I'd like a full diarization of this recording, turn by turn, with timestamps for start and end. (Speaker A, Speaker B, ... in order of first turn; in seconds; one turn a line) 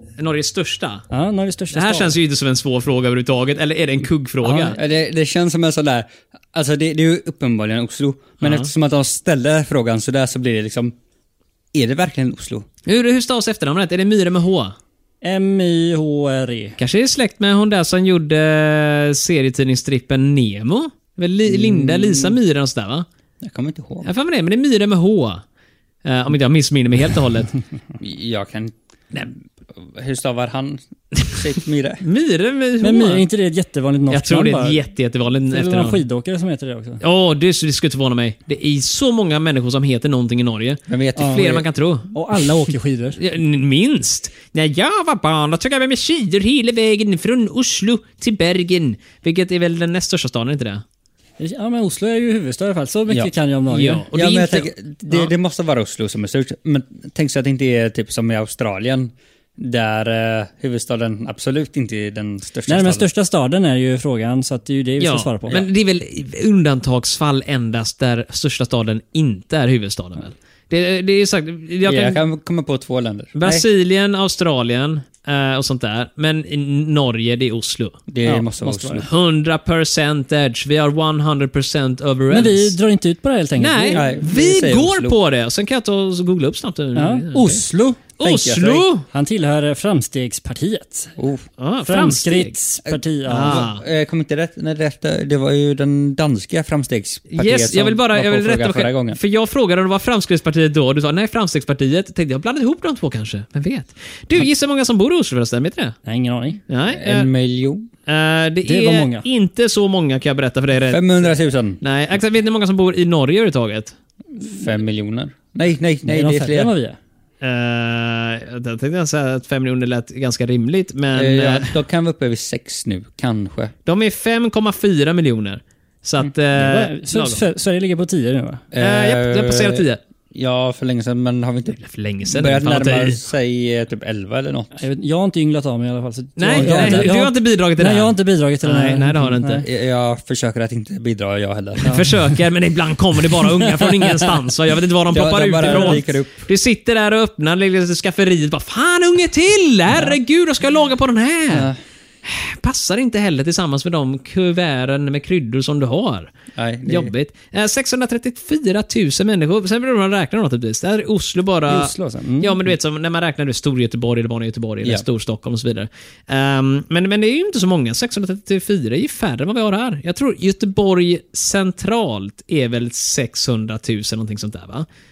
Speaker A: 0.2-1.0
Speaker B: 1.1-2.1
Speaker A: 1.7-4.8
Speaker B: 4.4-4.8
Speaker C: 4.7-10.9
Speaker A: 8.4-8.7
Speaker C: 11.7-12.7
Speaker A: 12.8-14.7
Speaker B: 15.2-16.8
Speaker A: 16.8-23.1
Speaker C: 21.5-22.4
Speaker C: 23.4-24.1
Speaker A: 24.0-25.4
Speaker A: 26.0-27.5
Speaker C: 28.0-32.0
Speaker A: 32.0-33.2
Speaker B: 32.8-34.8
Speaker A: 34.1-36.0
Speaker B: 35.5-37.0
Speaker A: 37.0-42.1
Speaker C: 40.9-41.6
Speaker B: 41.2-41.4
Speaker B: 42.1-43.2
Speaker A: 43.2-50.8
Speaker B: 51.4-54.0
Speaker A: 53.7-55.3
Speaker C: 54.1-63.1
Speaker B: 62.7-65.7
Speaker A: 65.0-72.2
Speaker C: 71.8-73.6
Speaker A: 73.3-78.0
Speaker C: 78.1-79.0
Speaker B: 78.2-79.0
Speaker A: 79.0-82.7
Speaker B: 82.3-84.0
Speaker A: 83.6-87.6
Speaker C: 83.9-85.1
Speaker B: 86.9-88.0
Speaker A: 88.2-89.0
Speaker C: 88.2-88.9
Speaker B: 89.1-91.1
Speaker C: 91.2-91.5
Speaker A: 91.6-92.5
Speaker B: 91.8-93.7
Speaker C: 92.9-99.2
Speaker A: 93.3-93.8
Speaker A: 97.3-106.0
Speaker B: 106.0-106.6
Speaker A: 106.7-107.3
Speaker C: 106.9-107.9
Speaker A: 108.1-111.3
Speaker B: 108.7-109.2
Speaker C: 110.9-111.8
Speaker A: 111.8-113.9
Speaker C: 114.4-116.7
Speaker B: 116.0-117.0
Speaker A: 117.4-121.7
Speaker C: 121.1-123.7
Speaker A: 123.8-127.4
Speaker B: 126.5-128.6
Speaker C: 128.7-129.8
Speaker A: 128.8-130.0
Speaker C: 130.3-131.8
Speaker A: 131.8-133.2
Speaker C: 132.3-134.7
Speaker B: 134.7-139.6
Speaker A: 136.4-139.7
Speaker C: 136.5-137.1
Speaker C: 139.6-142.0
Speaker A: 141.8-151.7
Speaker C: 145.1-146.5
Speaker B: 145.6-146.0
Speaker C: 151.5-151.8
Speaker A: 152.2-156.3
Speaker C: 156.5-157.1
Speaker A: 156.9-174.8
Speaker B: 161.7-162.6